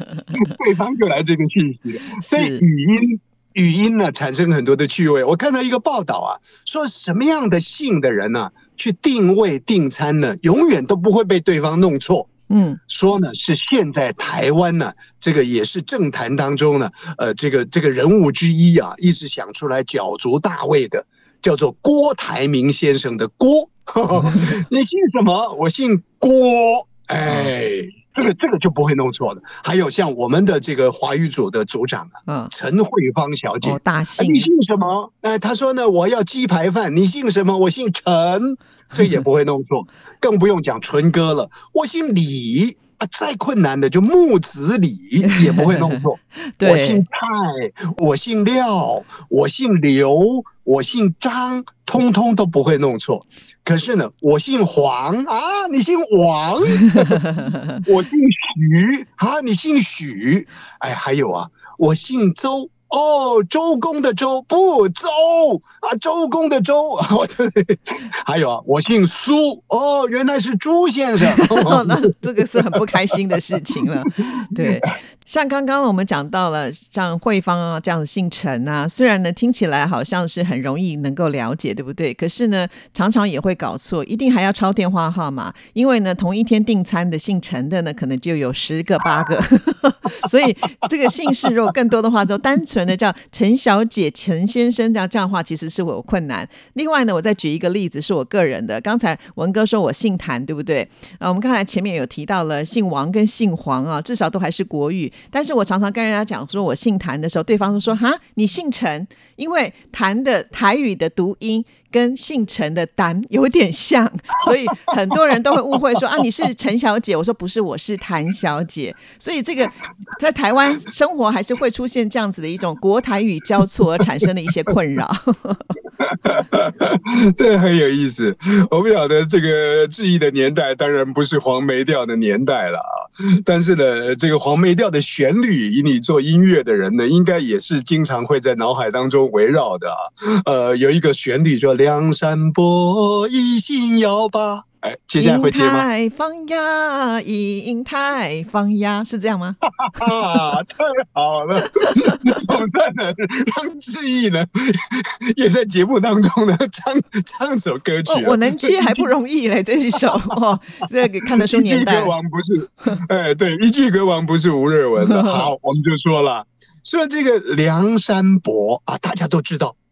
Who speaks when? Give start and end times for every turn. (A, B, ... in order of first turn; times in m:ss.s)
0:00.3-0:12.3 A
0:02.2-0:02.6 B
0:12.5-0:12.8 B
0:12.9-0:57.2 A
0:32.3-0:32.5 B
0:33.6-0:34.5 B
0:45.3-0:46.0 B
0:46.6-0:47.0 B
0:57.8-1:12.2 A
1:11.4-2:05.6 B
1:14.6-1:14.9 A
2:06.0-2:25.9 A
2:25.2-2:30.4 B
2:29.8-2:39.1 A
2:38.0-2:42.1 B
2:41.4-2:49.8 A
2:45.0-2:45.5 B